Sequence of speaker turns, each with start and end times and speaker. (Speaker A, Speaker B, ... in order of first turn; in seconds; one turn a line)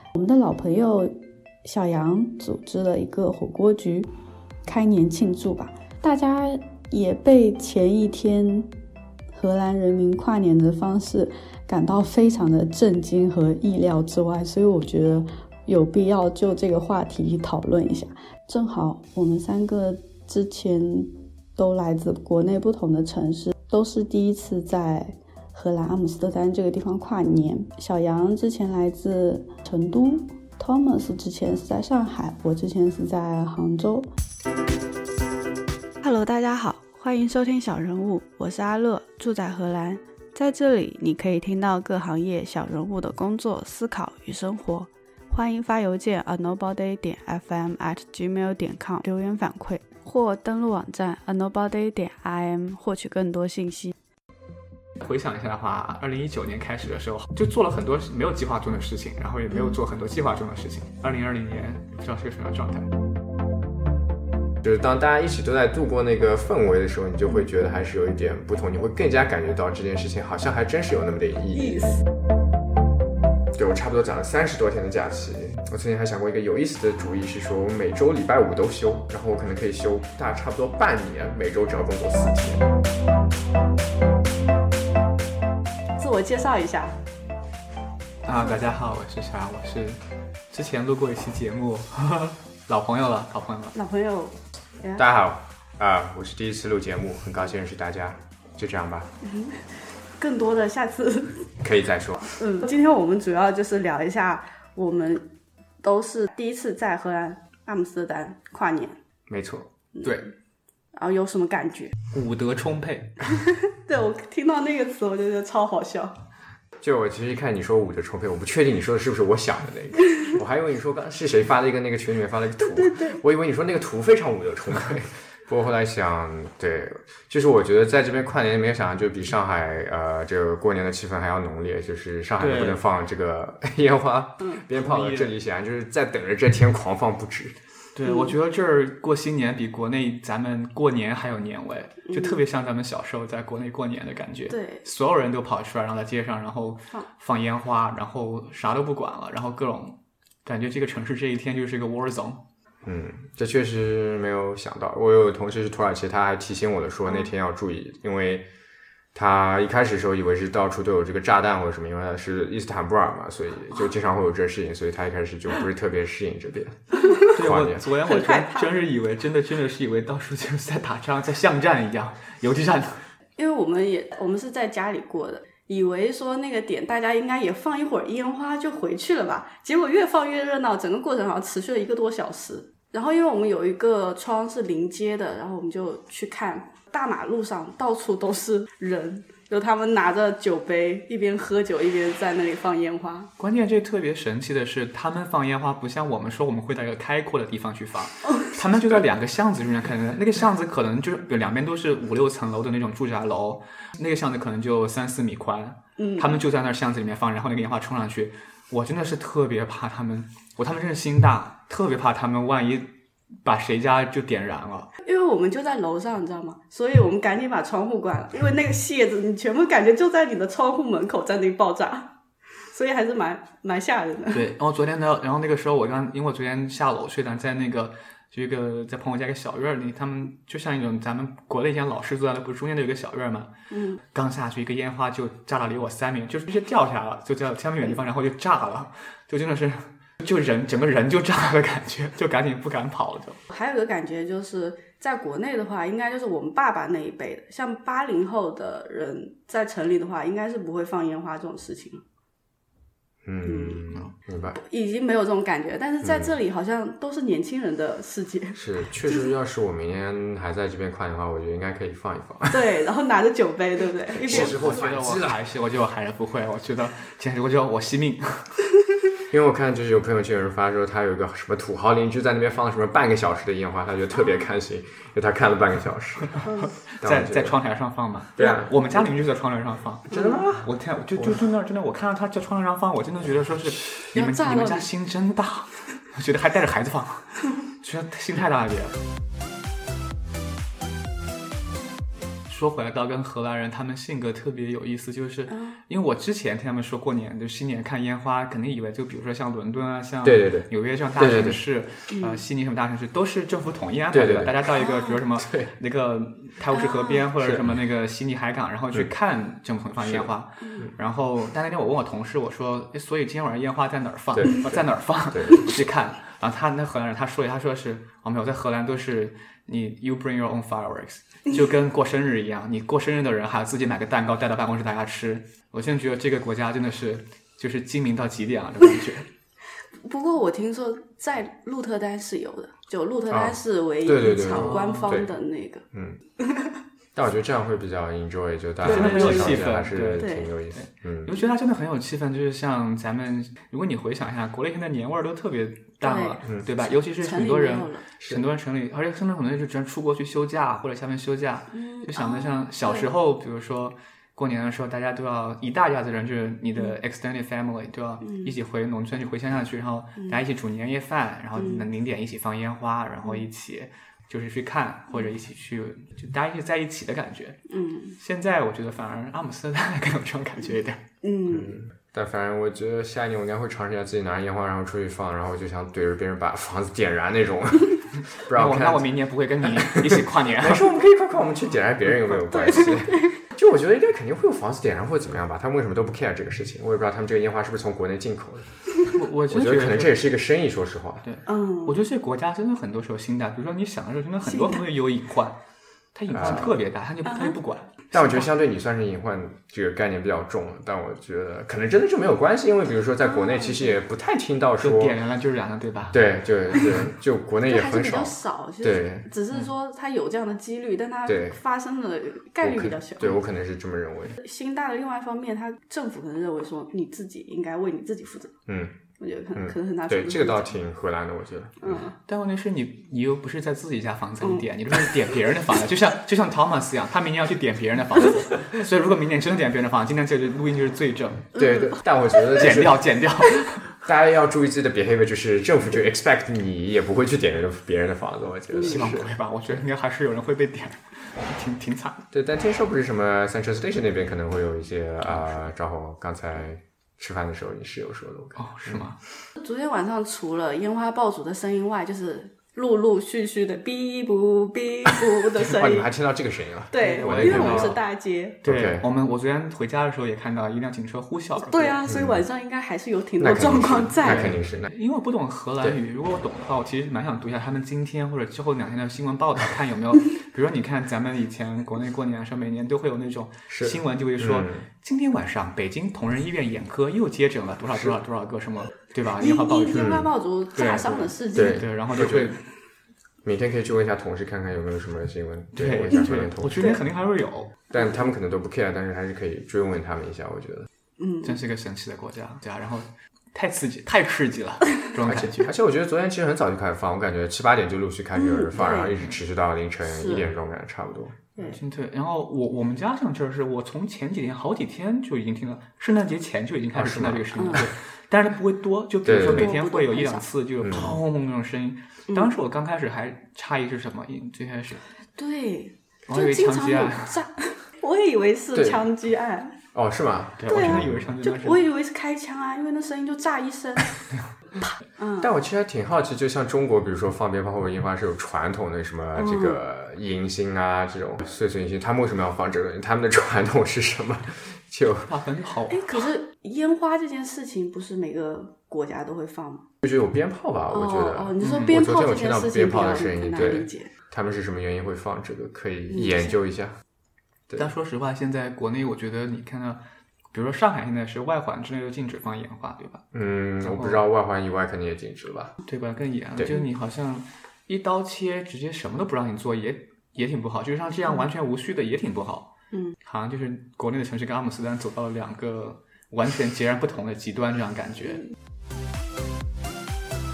Speaker A: 0.1-4.1
Speaker A: 4.7-8.7
Speaker A: 9.3-34.1
Speaker A: 36.0-53.9
Speaker B: 55.0-62.9
Speaker C: 64.6-72.0
Speaker A: 71.7-72.0
Speaker C: 73.5-82.7
Speaker A: 86.0-87.0
Speaker B: 88.2-90.0
Speaker A: 88.3-88.6
Speaker B: 90.5-93.7
Speaker A: 93.7-95.0
Speaker C: 95.0-99.1
Speaker A: 99.2-101.5
Speaker C: 101.6-102.3
Speaker A: 102.3-105.2
Speaker A: 105.8-109.0
Speaker C: 109.3-109.7
Speaker B: 110.0-110.3
Speaker A: 110.9-111.9
Speaker B: 112.1-113.3
Speaker A: 113.3-116.1
Speaker C: 116.8-137.6
Speaker A: 122.6-123.2
Speaker B: 132.4-132.8
Speaker B: 134.7-135.3
Speaker B: 137.9-152.4
Speaker A: 138.1-138.3
Speaker A: 142.1-142.4
Speaker A: 144.5-144.8
Speaker C: 152.8-158.4
Speaker C: 159.1-167.9
Speaker A: 167.0-167.3
Speaker B: 167.3-173.0
Speaker A: 168.0-168.7
Speaker A: 173.4-193.3
Speaker B: 193.4-212.9
Speaker A: 206.0-206.4
Speaker B: 213.4-214.9
Speaker A: 215.0-224.4
Speaker B: 224.3-233.5
Speaker A: 233.7-234.0
Speaker B: 234.1-243.4
Speaker A: 243.5-252.0
Speaker C: 253.2-254.6
Speaker A: 253.4-253.9
Speaker A: 254.5-259.3
Speaker C: 258.5-262.6
Speaker A: 262.5-264.7
Speaker C: 264.2-265.4
Speaker B: 264.2-268.6
Speaker C: 269.3-276.4
Speaker A: 274.1-274.5
Speaker A: 276.4-276.7
Speaker B: 276.6-288.9
Speaker C: 277.0-277.6
Speaker C: 278.4-279.1
Speaker C: 280.1-281.4
Speaker A: 280.1-280.4
Speaker A: 284.1-284.9
Speaker B: 292.5-329.3
Speaker A: 295.5-295.8
Speaker C: 300.2-301.6
Speaker A: 302.1-302.4
Speaker C: 304.1-304.7
Speaker A: 304.7-305.2
Speaker C: 305.4-305.7
Speaker A: 306.7-307.2
Speaker C: 307.4-307.8
Speaker C: 310.0-310.9
Speaker A: 310.6-310.9
Speaker C: 314.4-315.7
Speaker A: 330.0-335.8
Speaker C: 333.3-335.3
Speaker B: 334.5-335.2
Speaker C: 335.9-336.2
Speaker A: 336.4-336.7
Speaker C: 337.1-341.3
Speaker B: 338.8-367.6
Speaker A: 338.9-339.6
Speaker A: 340.2-340.5
Speaker A: 346.0-346.4
Speaker A: 347.1-348.0
Speaker A: 351.7-353.1
Speaker A: 358.2-358.5
Speaker A: 361.6-361.9
Speaker A: 367.7-368.2
Speaker B: 368.2-371.0
Speaker A: 371.2-371.8
Speaker C: 371.5-379.1
Speaker B: 378.3-380.9
Speaker C: 379.6-388.7
Speaker A: 382.3-383.4
Speaker B: 389.1-390.2
Speaker C: 389.5-391.2
Speaker B: 391.2-395.6
Speaker A: 391.4-392.0
Speaker A: 394.5-394.8
Speaker B: 396.1-398.5
Speaker C: 396.3-396.8
Speaker A: 397.3-397.6
Speaker C: 398.1-405.2
Speaker A: 403.3-403.9
Speaker B: 404.8-406.3
Speaker C: 406.1-409.3
Speaker A: 407.6-413.4
Speaker C: 411.3-411.6
Speaker C: 412.6-414.4
Speaker A: 414.4-418.5
Speaker C: 418.7-418.9
Speaker A: 419.2-420.7
Speaker C: 419.5-422.0
Speaker A: 421.8-422.1
Speaker B: 422.3-431.5
Speaker C: 431.5-433.1
Speaker A: 431.6-432.0
Speaker B: 432.5-433.9
Speaker C: 434.0-439.8
Speaker B: 438.8-442.3
Speaker C: 442.3-449.0
Speaker B: 448.6-449.2
Speaker A: 449.6-456.1
Speaker C: 455.5-457.9
Speaker A: 456.9-458.6
Speaker B: 456.9-458.0
Speaker B: 458.6-462.0
Speaker C: 458.6-459.1
Speaker A: 461.6-464.5
Speaker C: 462.1-462.4
Speaker C: 463.4-464.9
Speaker B: 464.2-482.6
Speaker C: 473.7-474.9
Speaker A: 479.4-481.8
Speaker C: 479.9-480.3
Speaker C: 481.5-482.6
Speaker C: 483.4-487.0
Speaker B: 485.7-487.8
Speaker C: 487.9-490.9
Speaker A: 491.2-491.5
Speaker B: 491.4-495.7
Speaker C: 495.2-501.7
Speaker A: 498.3-499.1
Speaker A: 500.0-500.5
Speaker B: 501.7-515.0
Speaker C: 506.9-507.9
Speaker A: 507.6-507.9
Speaker C: 509.2-509.7
Speaker A: 509.4-510.4
Speaker C: 510.8-511.2
Speaker A: 515.4-519.8
Speaker B: 516.3-517.4
Speaker C: 518.7-519.0
Speaker C: 519.9-521.3
Speaker B: 520.6-521.8
Speaker A: 520.7-524.1
Speaker A: 525.2-525.5
Speaker C: 525.4-535.3
Speaker A: 529.4-529.8
Speaker B: 535.3-536.3
Speaker A: 535.9-539.8
Speaker C: 540.0-547.0
Speaker A: 540.9-544.1
Speaker B: 541.6-542.0
Speaker A: 546.1-546.5
Speaker B: 547.8-550.0
Speaker B: 550.5-553.2
Speaker C: 553.3-555.7
Speaker B: 553.8-554.2
Speaker B: 555.8-562.7
Speaker B: 563.2-568.4